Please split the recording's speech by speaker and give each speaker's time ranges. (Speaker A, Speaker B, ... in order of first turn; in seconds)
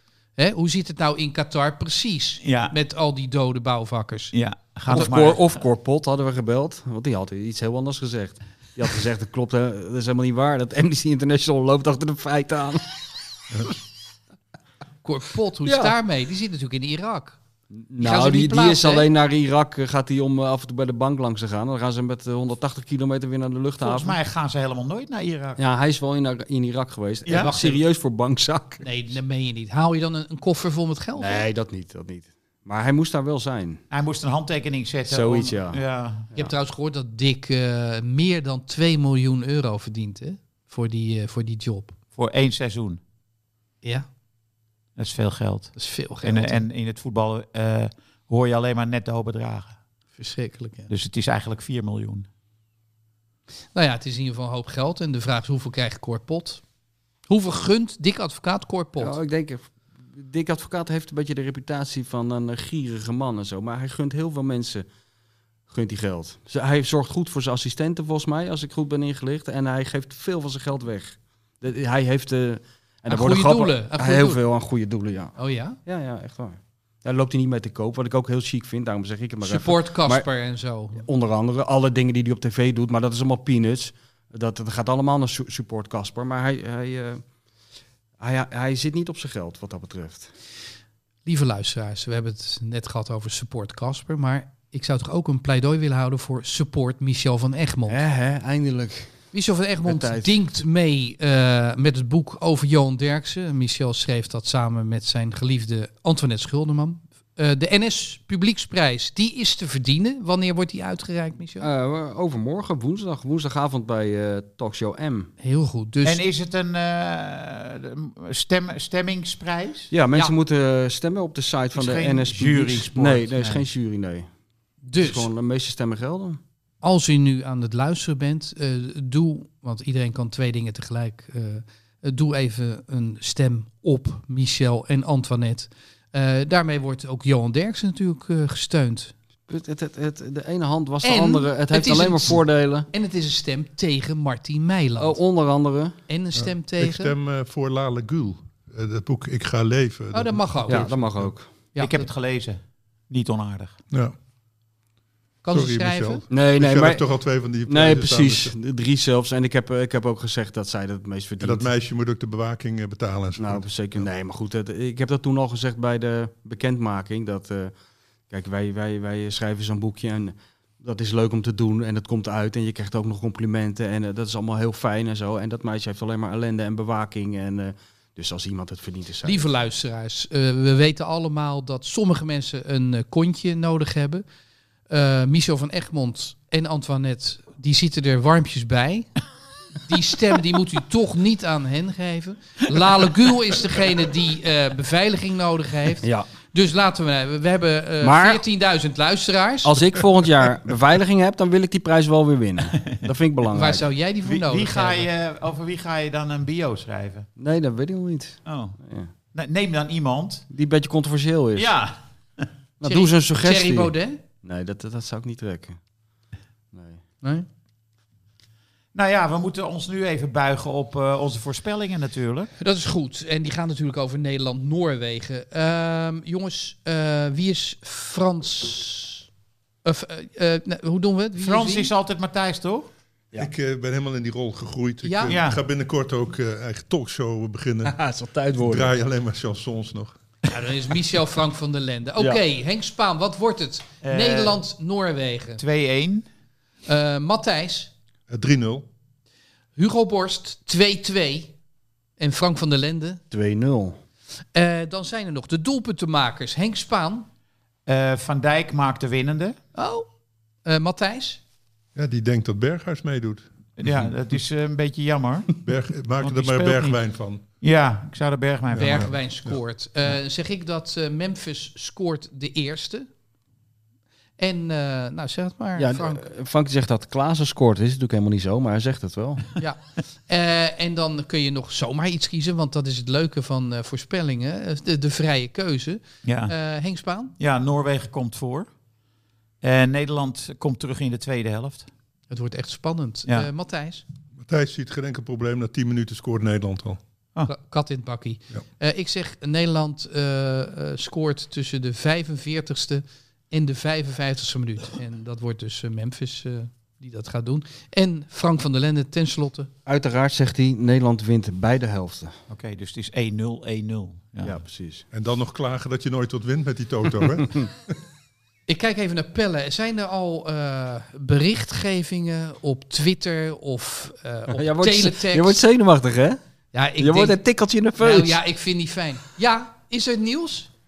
Speaker A: 0.4-4.3, 15.0-17.4, 18.0-19.1, 27.3-27.8, 28.8-31.4, 36.3-41.9, 45.8-46.6, 50.2-50.9, 53.7-56.6, 57.3-59.2, 73.1-74.4, 75.4-75.8, 79.4-81.0, 91.2-98.0, 99.3-111.7, 115.4-116.2, 124.8-125.3, 126.8-139.1, 141.0-145.2, 146.1-147.1, 150.1-150.9, 151.7-152.1, 155.4-156.2, 179.2-184.2, 184.9-189.1, 189.8-199.8, 203.5-205.1, 212.8-214.2, 222.6-229.2, 229.8-231.9, 235.0-235.3, 240.5-245.6, 246.9-247.9, 249.8-251.5, 252.2-253.2, 254.5-257.3, 259.8-260.1, 260.6-261.4, 268.8-273.1, 274.4-276.2, 279.6-287.3, 292.3-294.0, 297.5-309.7, 318.7-325.6, 326.7-327.4, 328.0-330.7
Speaker B: 2.4-2.7, 4.3-5.6, 23.8-25.6, 27.3-27.8, 33.9-36.3, 42.1-43.0, 45.0-49.8, 50.9-52.3, 116.0-119.9, 121.7-123.7, 151.8-153.8, 204.2-207.3, 208.5-208.8, 209.3-210.5, 211.6-212.5, 218.9-222.5, 231.4-232.9, 235.3-235.6, 244.0-244.6, 245.6-246.2, 257.9-259.6, 263.8-265.5, 266.2-267.0, 267.6-269.1, 286.2-286.5, 287.4-288.7, 289.6-291.9, 312.5-314.6
Speaker C: 4.9-12.8, 15.7-15.9, 17.7-24.2, 25.6-28.8, 31.2-33.8, 35.1-35.8, 59.0-64.9, 65.7-80.2, 81.0-87.2, 88.2-90.3, 97.9-99.2, 99.9-100.3, 111.6-115.3, 119.9-124.3, 125.0-126.4, 139.5-142.9, 145.0-146.0, 150.7-151.5, 156.3-157.0, 157.7-161.7, 163.4-167.7, 168.3-179.4, 196.0-196.3, 198.0-198.4, 199.6-203.8, 207.4-209.1, 210.5-211.7, 212.8-215.8, 216.7-217.0, 237.8-238.9, 253.3-254.0, 275.8-279.5, 309.9-312.4, 314.4-315.0, 324.5-326.4, 327.0-328.4
Speaker D: 146.3-151.3, 155.5-158.5, 161.4-164.1, 233.4-238.0, 238.6-240.2, 248.3-248.9, 261.9-264.1, 265.6-267.4, 268.7-269.6, 294.4-297.0, 315.1-317.9